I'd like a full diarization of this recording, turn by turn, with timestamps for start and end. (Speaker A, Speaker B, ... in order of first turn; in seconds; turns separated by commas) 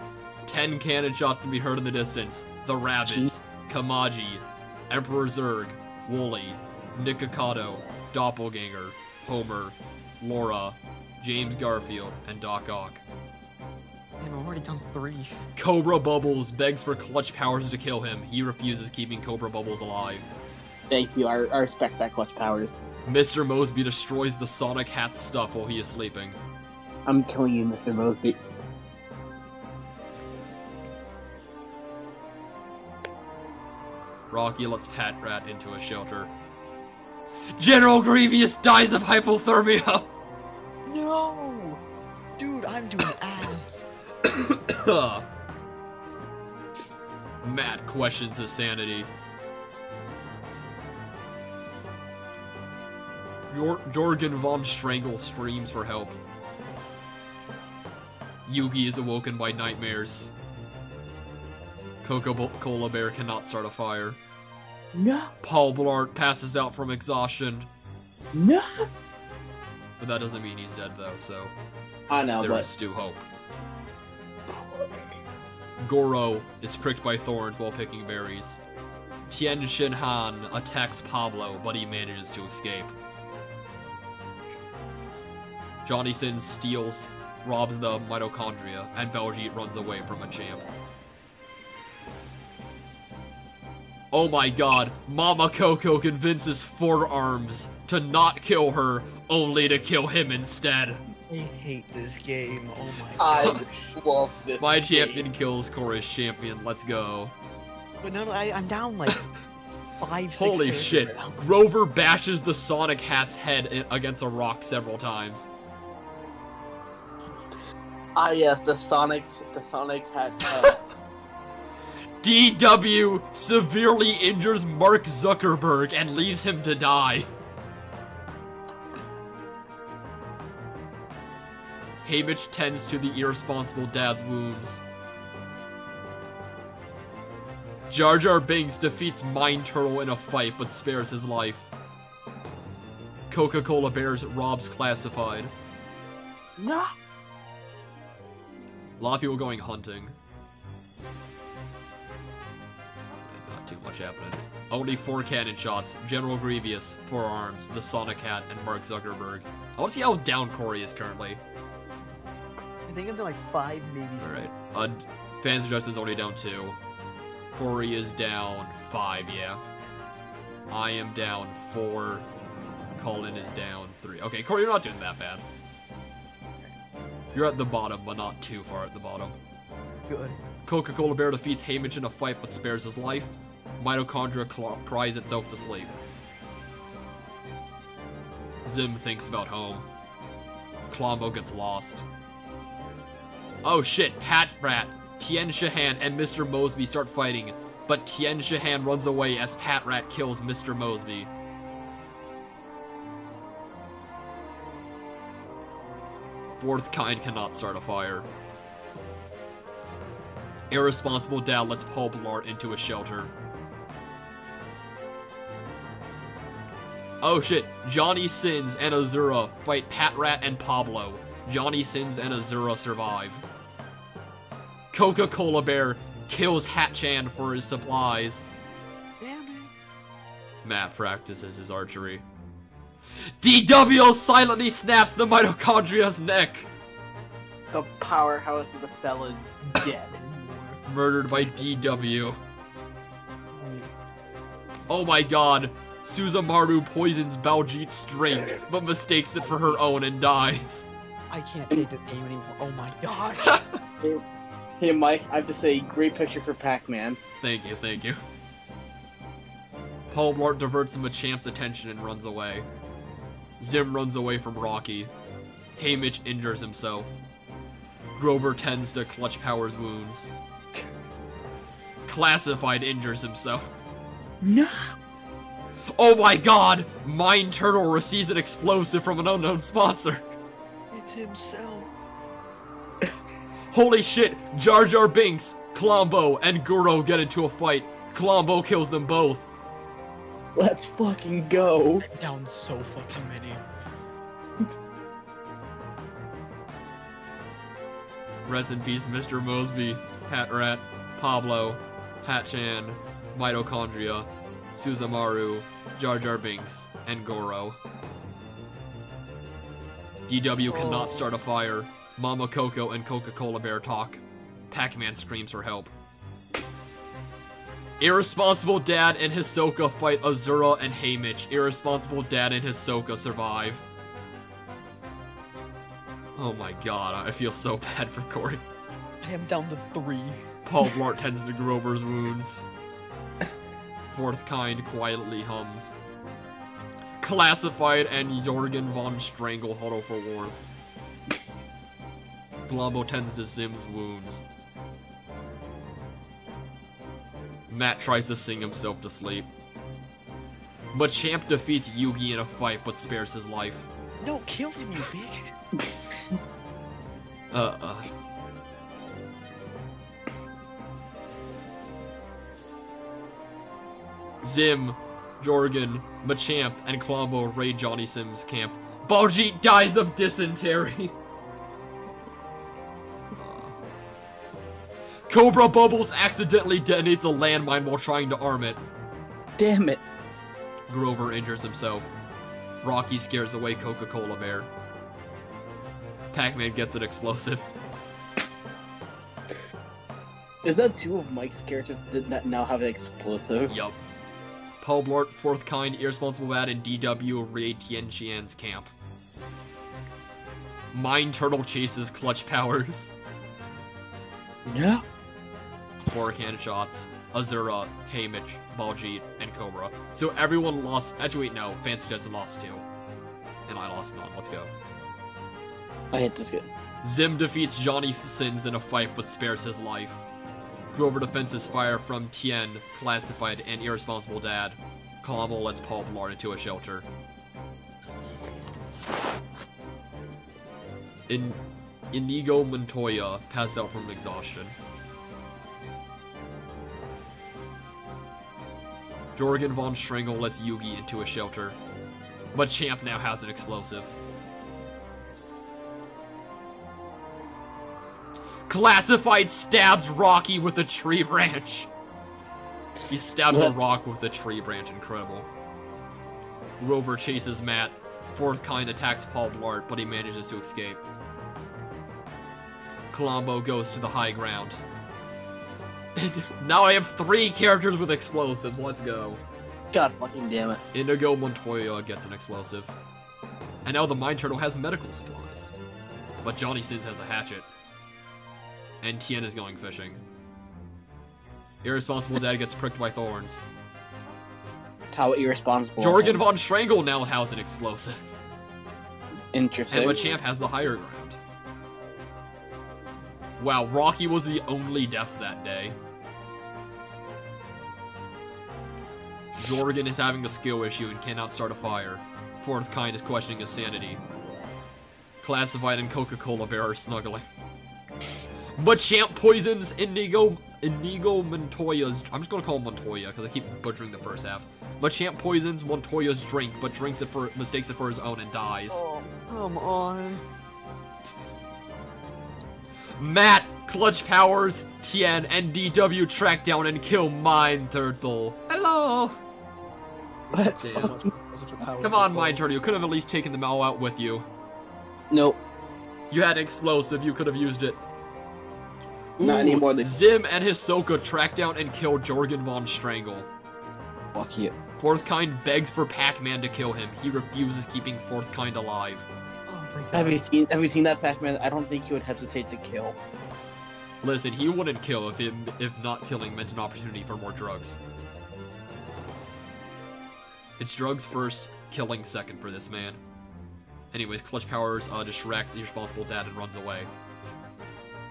Speaker A: 0.5-13.0, Speaker B: 3.0-3.3, Speaker C: 14.2-15.3, Speaker A: 15.6-20.3, Speaker B: 20.9-22.8, Speaker A: 23.1-26.4, Speaker B: 27.1-28.4, Speaker A: 34.3-36.3, Speaker A: 37.6-40.1, Speaker C: 40.9-41.8, Speaker C: 42.4-43.8, Speaker A: 44.3-45.2, Speaker A: 47.4-49.1, Speaker A: 53.5-56.2, Speaker A: 58.5-60.3, Speaker A: 62.0-64.2, Speaker B: 64.9-65.3, Speaker A: 65.4-67.7, Speaker B: 68.3-68.8, Speaker A: 70.0-71.5, Speaker B: 72.1-72.7, Speaker A: 72.4-73.3, Speaker B: 74.5-74.8, Speaker A: 75.8-78.6, Speaker A: 79.3-83.0, Speaker A: 85.8-90.7, Speaker A: 94.1-101.0, Speaker C: 101.3-104.0, Speaker B: 103.2-105.2, Speaker A: 104.6-107.3, Speaker C: 108.0-111.4, Speaker A: 110.4-115.5, Speaker B: 118.2-120.8, Speaker A: 122.2-127.3, Speaker A: 132.0-134.8, Speaker A: 137.9-141.7, Speaker A: 143.3-145.5, Speaker B: 146.6-146.9, Speaker A: 149.0-150.2, Speaker A: 153.3-161.4, Speaker C: 162.9-164.6, Speaker A: 164.2-166.8, Speaker A: 167.5-169.6, Speaker A: 170.7-172.3, Speaker A: 173.0-175.4, Speaker A: 177.3-179.4, Speaker C: 180.1-180.4, Speaker A: 180.7-185.9, Speaker A: 188.7-189.9, Speaker A: 190.9-192.1, Speaker A: 193.6-201.3, Speaker A: 206.6-208.3, Speaker A: 210.7-213.3, Speaker A: 217.2-223.4, Speaker A: 224.9-228.4, Speaker C: 229.2-229.7, Speaker A: 230.6-232.2, Speaker A: 233.4-236.7, Speaker B: 237.7-240.2, Speaker C: 239.8-240.8, Speaker A: 240.9-242.4, Speaker C: 243.5-243.9, Speaker A: 244.9-250.9, Speaker C: 251.3-253.6, Speaker A: 253.4-253.7, Speaker B: 254.8-257.2, Speaker A: 257.4-258.2, Speaker A: 260.1-262.7, Speaker A: 263.6-265.1, Speaker A: 265.8-267.2, Speaker A: 268.2-270.3, Speaker A: 272.1-273.8, Speaker B: 274.4-274.9, Speaker A: 276.0-280.3, Speaker C: 280.9-281.9, Speaker A: 283.7-289.5, Speaker B: 290.6-292.1, Speaker C: 292.0-293.6, Speaker A: 298.4-307.8, Speaker A: 310.3-315.9, Speaker C: 310.7-311.3, Speaker A: 318.0-323.8, Speaker A: 326.4-328.6, Speaker C: 329.2-330.4, Speaker A: 330.7-332.7, Speaker A: 334.1-336.0, Speaker A: 337.2-340.6, Speaker A: 342.7-344.4, Speaker A: 347.7-349.5, Speaker A: 350.9-353.9, Speaker C: 354.2-355.6, Speaker A: 357.5-358.1, Speaker A: 364.4-371.2, Speaker A: 373.4-373.8, Speaker A: 375.3-378.8, Speaker B: 379.6-380.0, Speaker A: 380.9-382.1, Speaker A: 382.8-384.7, Speaker A: 386.3-387.7, Speaker B: 390.6-393.7, Speaker A: 393.7-394.0, Speaker A: 394.8-398.9, Speaker A: 400.9-403.1, Speaker B: 404.6-405.0, Speaker A: 406.1-412.9, Speaker A: 413.7-414.7, Speaker B: 416.1-416.7, Speaker A: 417.0-420.3, Speaker A: 420.9-427.1, Speaker A: 431.3-431.6, Speaker A: 432.1-434.8, Speaker A: 439.4-441.8, Speaker A: 442.5-444.2, Speaker A: 448.7-451.9, Speaker A: 453.1-455.5, Speaker B: 453.5-453.8, Speaker A: 456.8-461.0, Speaker A: 463.1-464.8, Speaker A: 466.2-469.4, Speaker B: 469.9-470.8, Speaker A: 470.9-472.9, Speaker A: 473.9-475.7, Speaker A: 476.4-477.7, Speaker A: 479.0-480.2, Speaker A: 481.8-483.7, Speaker B: 485.1-486.4, Speaker A: 486.0-488.4, Speaker B: 489.5-490.4, Speaker A: 489.9-491.4, Speaker A: 493.6-496.0, Speaker A: 499.6-504.2, Speaker A: 505.4-507.5, Speaker A: 508.8-519.0, Speaker C: 519.0-520.4, Speaker A: 523.2-529.4, Speaker C: 530.5-532.6, Speaker B: 530.5-531.2, Speaker A: 530.8-531.1, Speaker A: 532.0-534.5, Speaker B: 535.3-535.6, Speaker A: 536.3-538.0, Speaker A: 539.4-543.5, Speaker B: 539.4-540.2, Speaker B: 544.3-544.8, Speaker A: 545.0-549.3, Speaker C: 549.7-550.5, Speaker B: 550.1-553.2, Speaker A: 554.2-558.0, Speaker A: 560.8-563.2, Speaker A: 564.1-567.1